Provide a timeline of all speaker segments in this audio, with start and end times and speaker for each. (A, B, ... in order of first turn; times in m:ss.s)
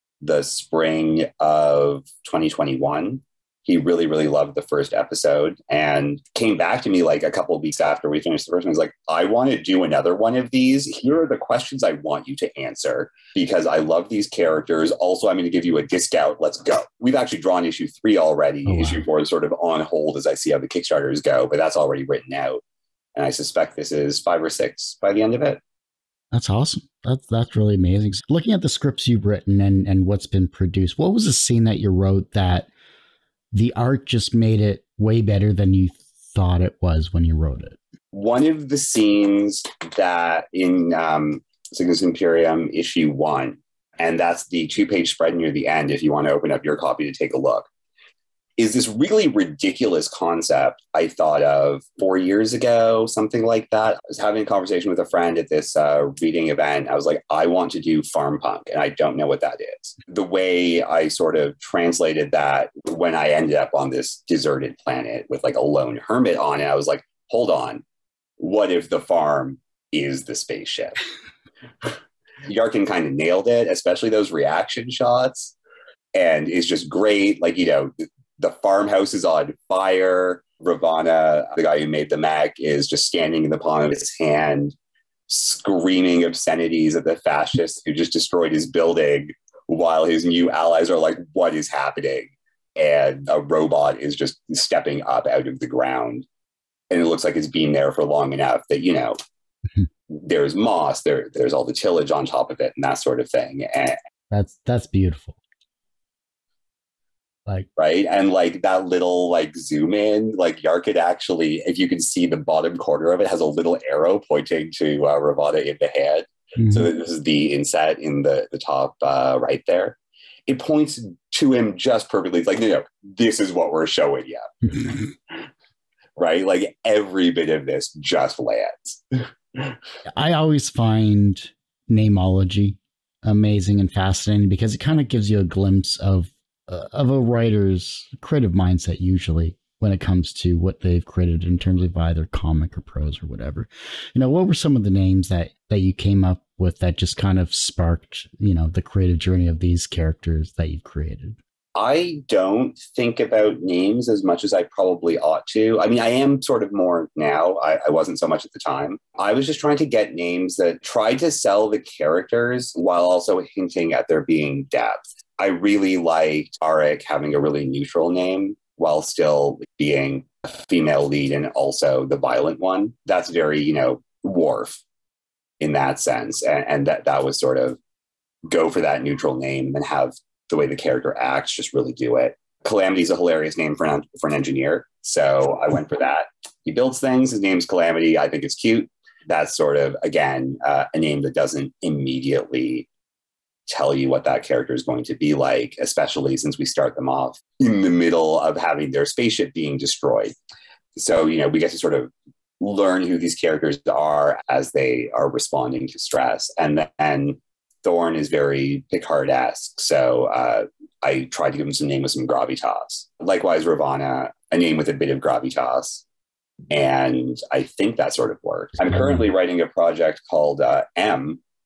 0:00.2-0:22.6 A
0:18.7-0:19.0 B
0:23.2-0:25.6 A
0:26.3-0:32.7 B
0:33.5-0:37.8 B
0:38.1-0:47.7 A
0:48.6-1:07.8 A
1:08.4-1:11.0 A
1:12.5-1:15.6 A
1:16.1-1:24.7 A
1:25.3-1:36.3 A
1:36.9-1:39.2 A
1:40.1-1:44.0 A
1:44.3-1:45.4 B
1:47.8-2:05.4 A
1:56.6-1:56.9 B
2:06.2-2:09.8 A
2:10.1-2:31.4 B
2:31.8-2:54.8 A
2:55.6-2:57.8 A
2:58.5-3:12.9 A
3:13.7-3:20.3 A
3:21.0-3:36.0 A
3:36.7-3:41.4 A